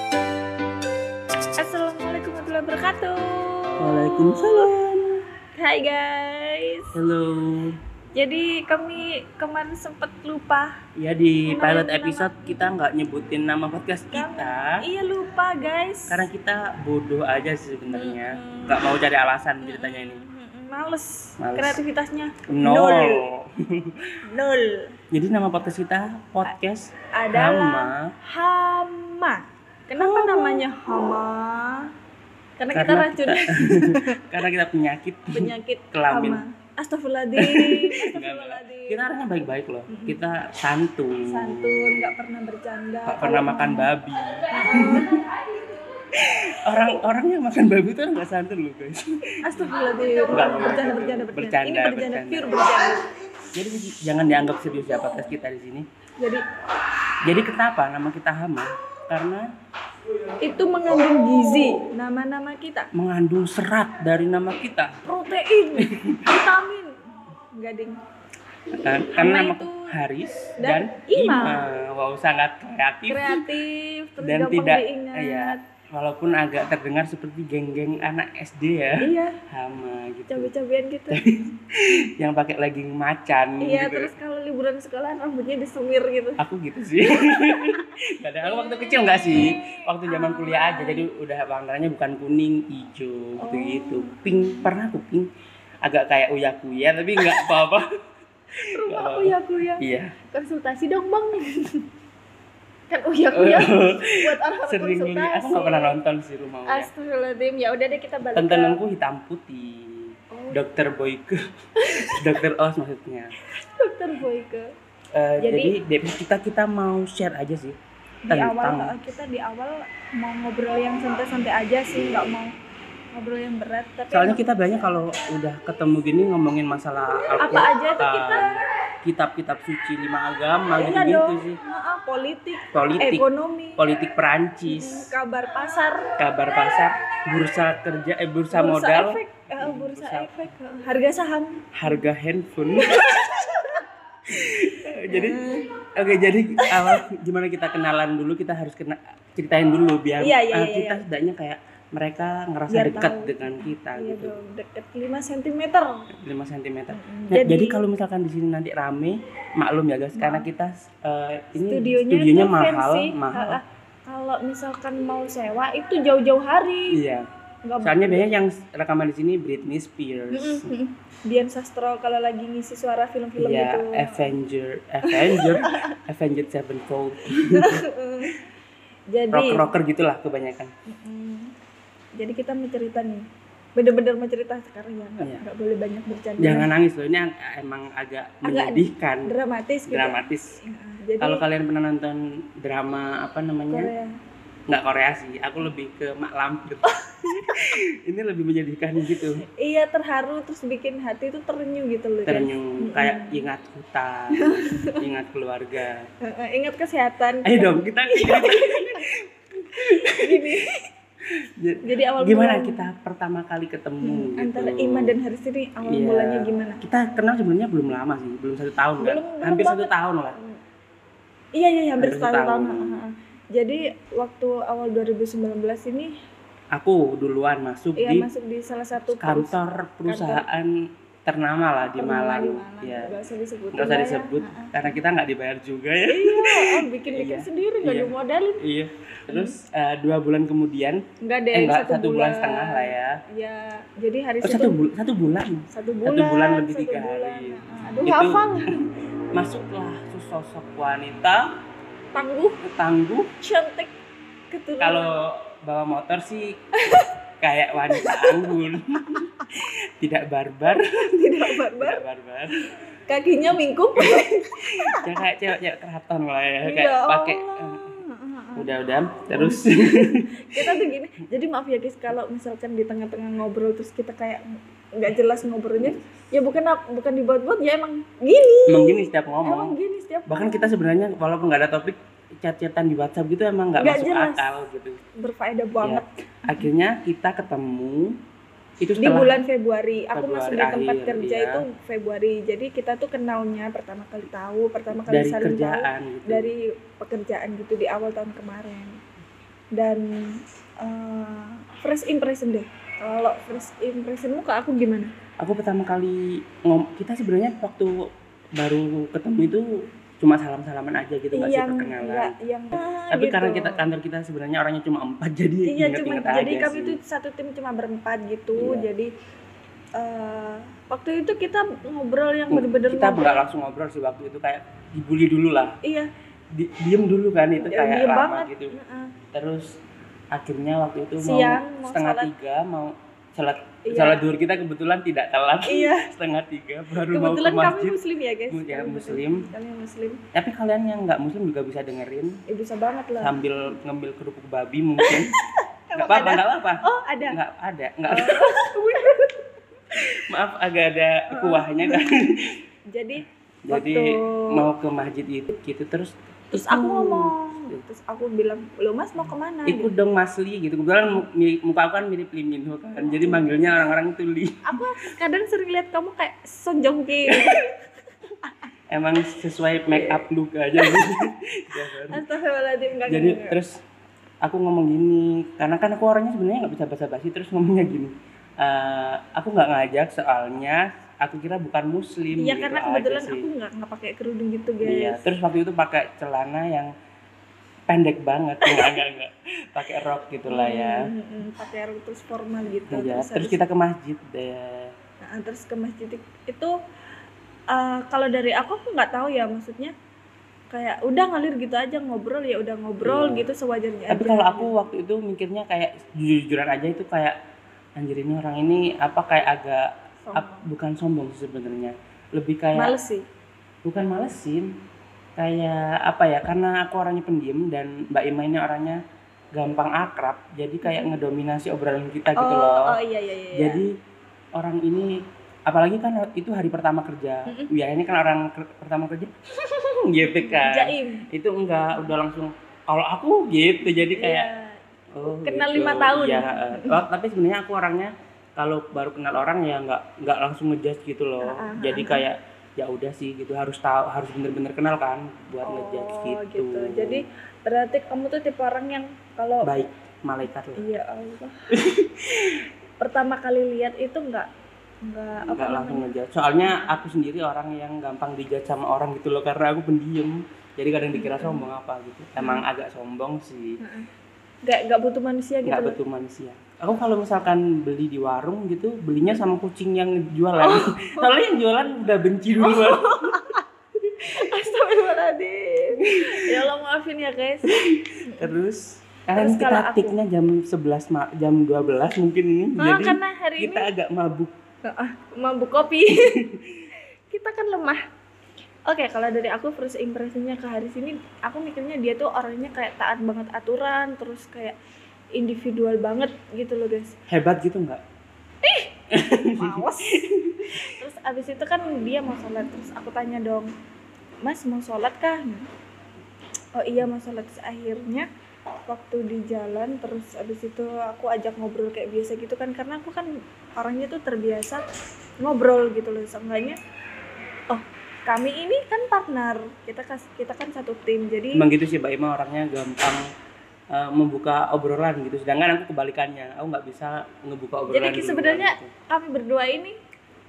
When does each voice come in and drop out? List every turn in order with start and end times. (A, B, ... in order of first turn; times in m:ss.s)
0:01.6-0:04.7 A
0:03.8-0:05.2 B
0:05.6-0:06.9 A
0:06.9-0:07.8 B
0:08.1-0:10.8 A
0:11.0-0:14.8 B
0:11.5-0:12.7 A
0:14.1-0:16.3 A
0:16.1-0:20.2 B
0:17.9-0:18.8 A
0:19.6-0:23.3 A
0:21.4-0:21.8 B
0:22.5-0:23.9 B
0:24.3-0:25.0 A
0:25.1-0:28.1 B
0:27.1-0:31.9 A
0:29.9-0:30.6 B
0:32.6-0:34.4 A
0:32.7-0:36.4 B
0:35.3-0:39.0 A
0:37.4-0:42.1 B
0:39.9-0:40.2 A
0:41.2-0:43.9 A
0:43.1-0:45.4 B
0:44.5-0:45.2 A
0:46.1-0:49.4 B
0:49.4-0:53.1 A
0:50.3-0:52.7 B
0:53.5-0:55.9 B
0:56.2-0:56.4 A
0:57.2-0:59.4 B
1:00.4-1:02.9 A
1:02.9-1:05.0 B
1:05.1-1:06.9 A
1:05.8-1:06.3 B
1:07.6-1:08.0 A
1:08.8-1:13.4 B
1:09.1-1:09.9 A
1:10.6-1:11.7 A
1:13.1-1:15.6 A
1:14.2-1:20.5 B
1:19.0-1:19.4 A
1:20.3-1:21.2 A
1:21.1-1:24.1 B
1:23.6-1:26.4 A
1:26.4-1:35.3 B
1:27.2-1:27.9 A
1:28.4-1:31.1 A
1:33.4-1:34.7 A
1:35.8-1:37.8 B
1:37.2-1:37.6 A
1:38.7-1:39.8 A
1:38.8-1:40.1 B
1:40.3-1:41.8 A
1:42.9-1:45.9 A
1:43.3-1:46.9 B
1:46.7-1:48.8 A
1:48.3-1:51.4 B
1:50.3-1:50.6 A
1:51.8-1:52.3 A
1:52.1-1:53.3 B
1:53.6-1:54.7 A
1:55.2-1:57.8 B
1:55.4-1:55.8 A
1:58.3-2:02.5 A
1:58.3-1:58.9 B
2:01.9-2:02.2 B
2:03.1-2:04.4 A
2:04.1-2:11.6 B
2:07.4-2:08.6 A
2:10.7-2:13.8 A
2:12.7-2:13.2 B
2:13.8-2:15.1 B
2:14.7-2:16.1 A
2:16.2-2:20.3 B
2:18.5-2:22.1 A
2:21.8-2:23.2 B
2:22.8-2:23.8 A
2:24.3-2:34.3 B
2:25.1-2:25.7 A
2:26.6-2:27.0 A
2:30.2-2:31.0 A
2:32.7-2:36.0 A
2:36.1-2:43.6 B
2:36.9-2:37.8 A
2:40.2-2:40.5 A
2:41.6-2:47.0 A
2:46.9-2:47.3 B
2:47.6-2:48.3 A
2:47.8-2:50.7 B
2:50.3-2:54.3 A
2:53.4-2:57.8 B
2:55.0-2:56.0 A
2:57.3-2:58.4 A
2:59.1-2:59.7 A
2:59.3-3:00.7 B
3:00.9-3:01.5 A
3:02.2-3:06.7 A
3:06.4-3:09.3 B
3:08.4-3:11.4 A
3:09.9-3:10.6 B
3:11.2-3:13.9 B
3:13.7-3:14.1 A
3:14.7-3:19.4 B
3:16.9-3:17.7 A
3:19.2-3:23.5 A
3:22.3-3:26.1 B
3:24.4-3:25.0 A
3:26.2-3:29.1 A
3:27.4-3:30.4 B
3:29.8-3:30.9 A
3:31.6-3:35.1 B
3:31.8-3:32.8 A
3:34.0-3:36.8 A
3:35.9-3:40.4 B
3:39.0-3:40.6 A
3:41.6-3:46.1 A
3:42.0-3:43.0 B
3:46.7-3:48.3 B
3:48.0-3:50.4 A
3:49.1-3:50.7 B
3:51.3-3:53.1 B
3:52.0-3:55.0 A
3:53.7-4:01.0 B
3:56.1-3:58.6 A
3:59.3-3:59.6 A
4:01.2-4:04.8 A
4:01.5-4:03.1 B
4:04.4-4:11.4 B
4:05.7-4:08.8 A
4:12.1-4:12.6 A
4:12.6-4:13.3 B
4:13.4-4:13.9 A
4:14.5-4:15.2 A
4:14.8-4:16.5 B
4:16.8-4:17.1 A
4:17.4-4:20.9 B
4:17.9-4:19.4 A
4:20.7-4:22.0 A
4:21.4-4:22.7 B
4:23.1-4:25.2 A
4:24.0-4:27.9 B
4:26.6-4:28.7 A
4:28.6-4:30.6 B
4:29.2-4:40.7 A
4:38.7-4:39.8 B
4:40.3-4:45.0 B
4:43.8-4:44.6 A
4:45.2-4:46.6 A
4:45.8-4:48.2 B
4:48.8-4:49.4 B
4:49.0-4:59.0 A
4:50.2-4:51.6 B
4:55.0-4:56.5 B
4:59.7-5:05.1 A
5:05.4-5:12.3 B
5:11.3-5:13.8 A
5:13.1-5:17.0 B
5:15.7-5:19.1 A
5:18.6-5:18.9 B
5:20.0-5:23.4 A
5:22.5-5:25.8 B
5:25.8-5:26.1 A
5:26.5-5:28.7 B
5:27.6-5:29.2 A
5:29.3-5:29.7 B
5:30.3-5:38.0 B
5:31.2-5:32.3 A
5:33.9-5:34.2 A
5:35.6-5:36.1 A
5:37.0-5:40.2 A
5:38.5-5:39.5 B
5:40.3-5:42.4 B
5:42.5-5:43.4 A
5:43.2-5:45.3 B
5:45.0-5:47.4 A
5:46.0-5:48.7 B
5:48.1-5:50.0 A
5:50.3-5:52.5 B
5:51.3-5:52.0 A
5:52.9-5:54.7 A
5:53.7-5:57.8 B
5:56.5-5:59.9 A
5:59.7-6:04.8 B
6:03.0-6:04.0 A
6:04.7-6:07.8 A
6:08.4-6:08.7 A
6:08.9-6:12.2 B
6:09.9-6:10.3 A
6:10.8-6:11.1 A
6:12.1-6:13.6 A
6:13.1-6:13.8 B
6:14.4-6:23.5 B
6:22.3-6:25.3 A
6:24.8-6:26.9 B
6:27.9-6:31.1 B
6:28.6-6:29.0 A
6:30.5-6:33.6 A
6:32.9-6:34.9 B
6:35.2-6:36.8 A
6:37.7-6:39.9 A
6:40.7-6:44.7 A
6:43.0-6:43.5 B
6:44.1-6:47.4 B
6:48.0-6:52.9 B
6:50.3-6:50.7 A
6:52.8-6:53.3 A
6:53.8-6:54.7 B
6:55.4-6:59.0 B
6:59.5-7:03.0 B
7:00.8-7:01.1 A
7:02.4-7:03.8 A
7:03.6-7:03.9 B
7:04.6-7:05.1 B
7:05.7-7:14.5 B
7:10.3-7:11.2 A
7:14.2-7:17.0 A
7:15.1-7:27.2 B
7:21.4-7:22.3 A
7:25.6-7:29.8 A
7:29.6-7:30.8 B
7:30.8-7:31.7 A
7:31.7-7:32.7 B
7:33.0-7:34.5 A
7:35.0-7:36.1 A
7:35.4-7:43.8 B
7:36.6-7:37.0 A
7:41.1-7:41.7 A
7:42.4-7:42.7 A
7:43.8-7:44.1 A
7:44.7-7:46.0 A
7:45.7-7:53.4 B
7:50.6-7:51.4 A
7:52.6-7:53.6 A
7:54.2-7:57.7 A
7:56.0-7:56.4 B
7:57.7-8:04.5 B
7:58.2-7:58.6 A
7:59.4-8:00.2 A
8:02.8-8:03.9 A
8:04.8-8:06.4 A
8:06.1-8:06.6 B
8:07.3-8:08.0 A
8:08.9-8:14.8 A
8:15.4-8:17.1 A
8:17.3-8:18.0 B
8:18.6-8:18.9 A
8:19.1-8:20.9 B
8:19.5-8:20.2 A
8:20.8-8:23.7 A
8:24.4-8:25.7 A
8:26.8-8:28.3 A
8:28.9-8:34.8 A
8:35.4-8:36.8 A
8:37.7-8:41.6 A
8:41.6-8:43.2 B
8:43.9-8:48.9 B
8:47.9-8:50.0 A